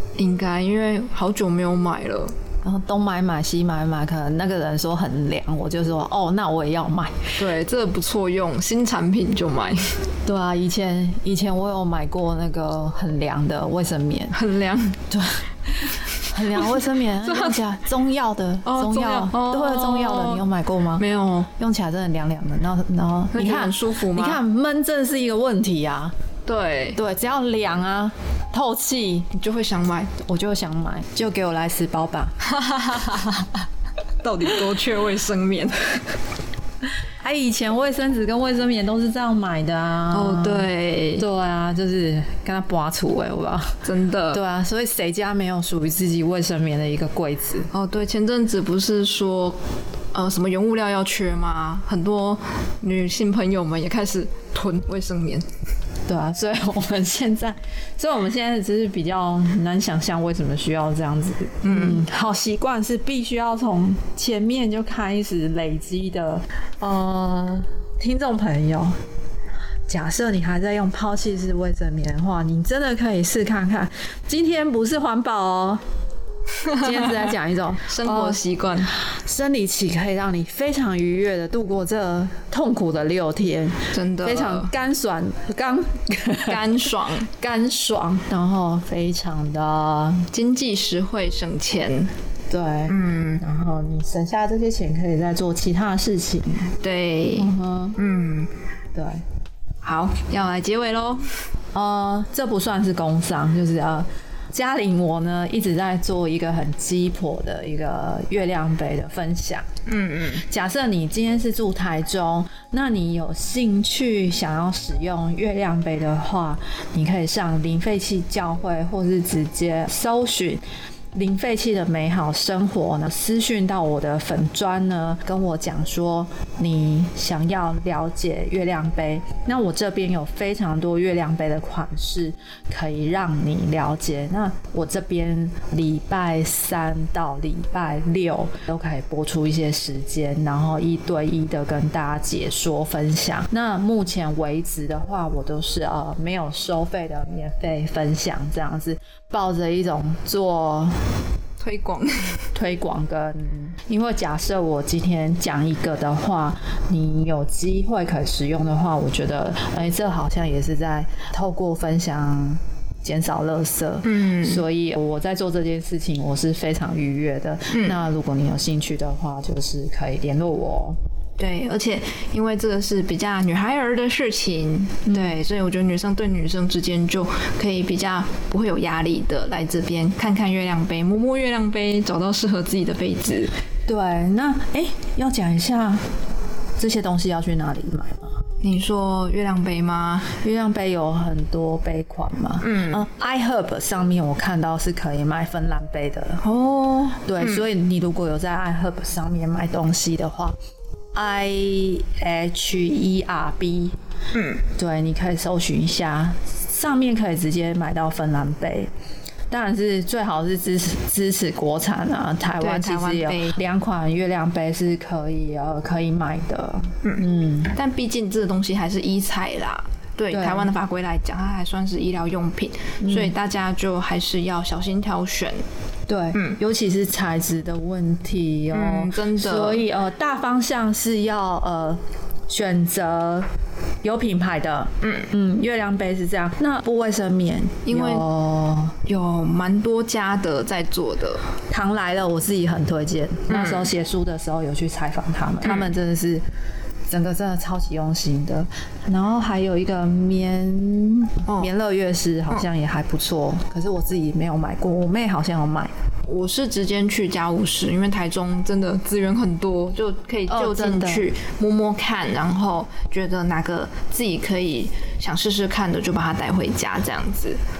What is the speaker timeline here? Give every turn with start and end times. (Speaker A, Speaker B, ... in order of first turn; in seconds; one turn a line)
Speaker A: 0.2-2.3
Speaker B: 2.6-7.3
Speaker A: 7.3-10.0
Speaker B: 10.2-14.3
Speaker A: 14.3-15.0
Speaker B: 15.1-26.1
Speaker A: 17.2-17.6
Speaker A: 18.6-20.4
Speaker A: 21.0-21.5
Speaker A: 23.3-24.4
Speaker A: 26.4-27.0
Speaker B: 26.9-29.3
Speaker A: 29.3-30.1
Speaker B: 30.2-32.3
Speaker A: 32.4-33.6
Speaker A: 34.2-36.1
Speaker B: 37.2-47.7
Speaker A: 40.1-41.2
Speaker A: 43.8-44.4
Speaker A: 47.7-49.6
Speaker A: 50.1-55.5
Speaker B: 56.1-69.0
Speaker A: 61.6-62.0
Speaker B: 69.9-75.8
Speaker B: 76.7-90.3
Speaker A: 77.9-79.0
Speaker A: 83.9-84.7
Speaker A: 86.5-87.3
Speaker A: 90.3-92.1
Speaker B: 92.5-96.7
Speaker A: 92.9-93.4
Speaker A: 96.8-98.5
Speaker B: 97.3-98.0
Speaker B: 98.9-99.2
Speaker A: 99.8-101.4
Speaker B: 101.7-109.7
Speaker A: 109.9-110.5
Speaker B: 110.4-151.1
Speaker A: 151.6-152.4
Speaker B: 152.5-171.0
Speaker A: 164.0-164.6
Speaker A: 167.7-168.0
Speaker A: 171.4-183.5
Speaker B: 175.1-175.4
Speaker B: 183.8-186.1
Speaker B: 186.8-188.3
Speaker A: 188.6-190.3
Speaker B: 190.4-196.4
Speaker A: 192.6-193.0
Speaker A: 196.4-197.6
Speaker B: 197.2-200.6
Speaker B: 201.1-203.9
Speaker A: 204.3-204.6
Speaker B: 204.7-208.9
Speaker B: 209.5-217.7
Speaker A: 212.6-213.6
Speaker A: 217.0-225.6
Speaker B: 220.3-220.7
Speaker B: 223.0-223.3
Speaker B: 226.1-233.5
Speaker A: 228.7-229.8
Speaker B: 234.0-239.0
Speaker A: 235.0-235.3
Speaker A: 237.8-238.2
Speaker A: 239.0-241.4
Speaker B: 241.7-246.4
Speaker A: 243.5-243.9
Speaker B: 247.1-255.9
Speaker A: 256.2-267.6
Speaker B: 260.5-261.3